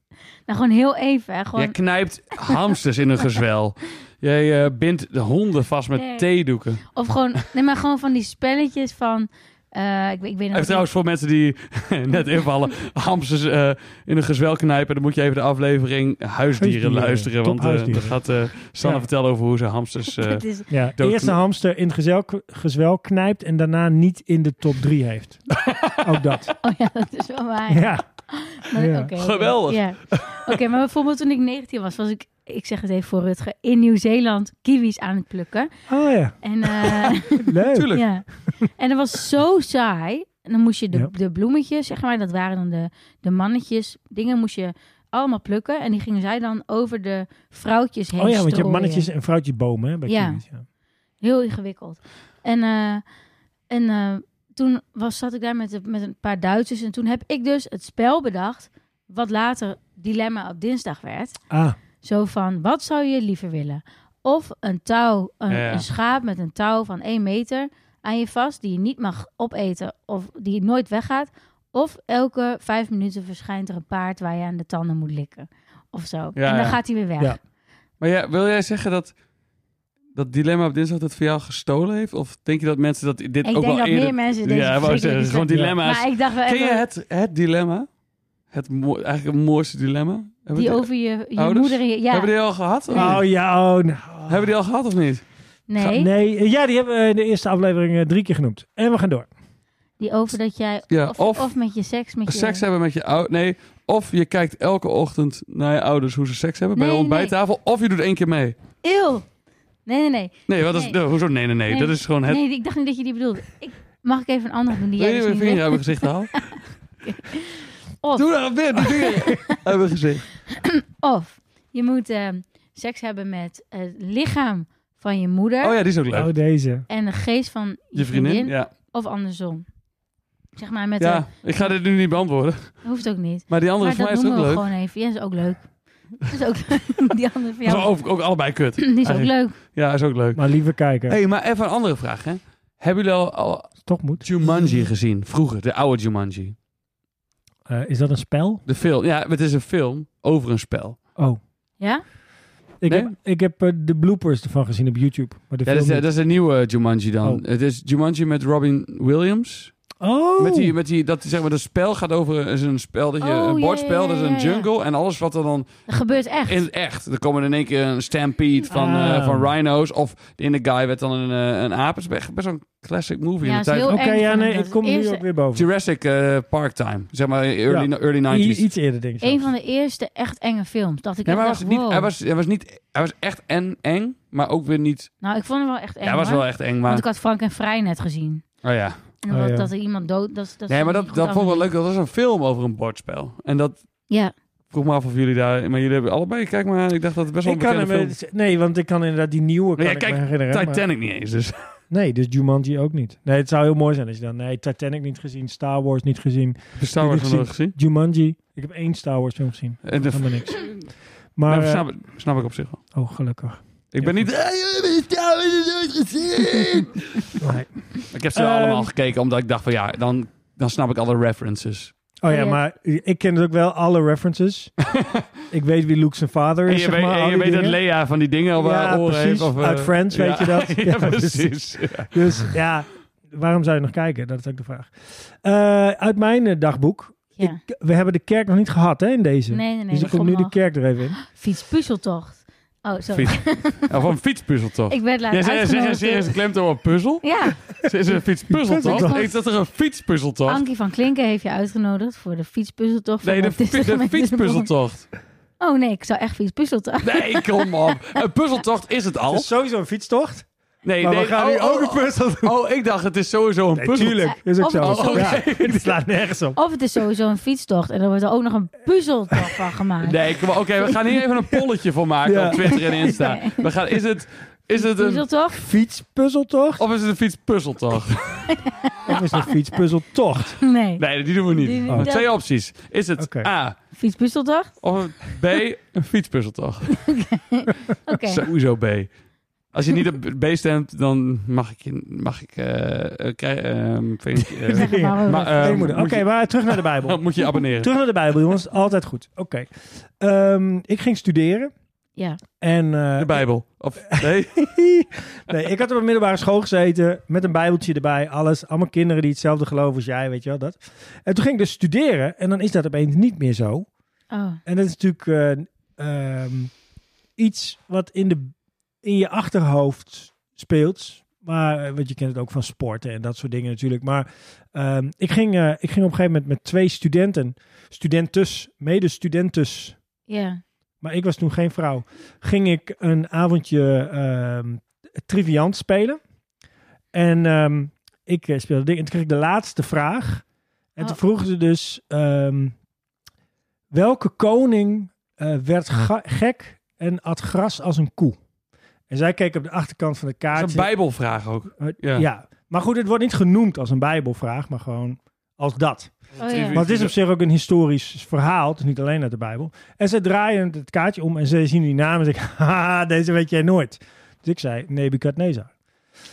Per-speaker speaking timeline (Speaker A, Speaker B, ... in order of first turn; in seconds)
Speaker A: 0.5-1.7, 6.0-6.2, 6.9-10.8, 20.2-20.7, 26.6-35.7, 36.4-49.1, 50.1-50.4, 51.2-53.0, 53.7-61.4, 62.0-77.4, 83.4-86.8, 90.5-92.3, 92.9-93.2, 95.7-96.1, 100.0-102.6, 106.8-107.3, 108.8-109.2, 109.8-111.0, 111.7-118.3, 118.8-119.6, 120.5-125.7, 126.9-129.6, 130.6-131.7, 132.8-135.7, 136.2-137.9, 138.8-139.6, 163.2-164.7, 165.9-166.6, 173.4-175.2, 179.2-182.1, 185.2-188.4, 189.2-191.7, 222.3-222.6, 239.5-240.5, 241.3-243.9, 244.9-246.3, 247.2-247.6, 248.8-249.3, 250.5-254.7, 255.6-257.7, 264.2-265.4, 266.5-270.2, 273.0-273.7, 274.8-275.6, 278.5-278.9, 280.6-282.3, 283.9-284.8, 286.9-288.4, 294.7-296.0, 314.3-314.6, 330.3-330.6, 356.4-356.8
Speaker B: 1.6-6.9, 10.5-21.4, 25.6-26.0, 29.2-30.5, 37.7-38.0, 65.5-65.8, 76.3-76.8, 78.0-79.1, 80.1-87.9, 88.5-93.2, 94.3-95.2, 100.9-101.5, 102.3-108.5, 110.5-112.4, 115.0-116.4, 118.1-120.3, 125.6-126.3, 128.0-128.7, 131.0-132.9, 133.5-134.7, 137.6-140.4, 141.1-146.5, 148.7-151.0, 155.7-159.7, 160.4-165.9, 166.4-174.0, 175.5-178.6, 181.2-185.1, 186.0-187.0, 188.6-189.0, 190.7-193.8, 194.7-198.1, 199.8-201.5, 206.8-207.7, 209.8-210.9, 211.5-212.8, 213.9-217.3, 218.1-221.9, 224.8-225.2, 226.7-232.2, 243.1-250.6, 253.2-255.1, 257.0-259.5, 260.8-265.9, 270.0-275.2, 276.8-278.4, 281.0-283.7, 284.8-286.9, 288.2-289.1, 289.7-297.9, 303.2-304.7, 350.5-352.3, 356.4-357.1
Speaker C: 16.6-18.2, 18.8-19.1, 20.7-25.5, 26.0-26.5, 27.7-28.0, 28.7-29.1, 35.9-36.4, 37.4-37.9, 48.1-50.6, 61.5-61.8, 85.5-85.8, 92.9-94.5, 95.8-99.3, 126.1-126.8, 140.3-141.2, 143.8-144.8, 147.7-148.6, 152.8-156.0, 160.0-160.7, 168.7-169.5, 173.8-175.7, 177.7-179.5, 189.3-189.7, 197.4-200.8, 201.9-210.6, 211.3-211.8, 212.9-214.3, 217.4-217.7, 218.3-218.9, 222.2-224.7, 225.5-227.8, 228.6-241.2, 248.6-249.2, 259.3-260.4, 261.0-262.5, 263.7-266.6, 272.2-273.2, 275.5-276.8, 279.1-280.6, 283.2-283.5, 294.4-301.7, 302.6-303.4, 304.1-313.9, 314.6-316.7, 317.4-329.9, 331.0-336.2, 337.1-340.4, 340.9-342.7, 343.9-348.4, 349.1-350.9, 351.8-365.7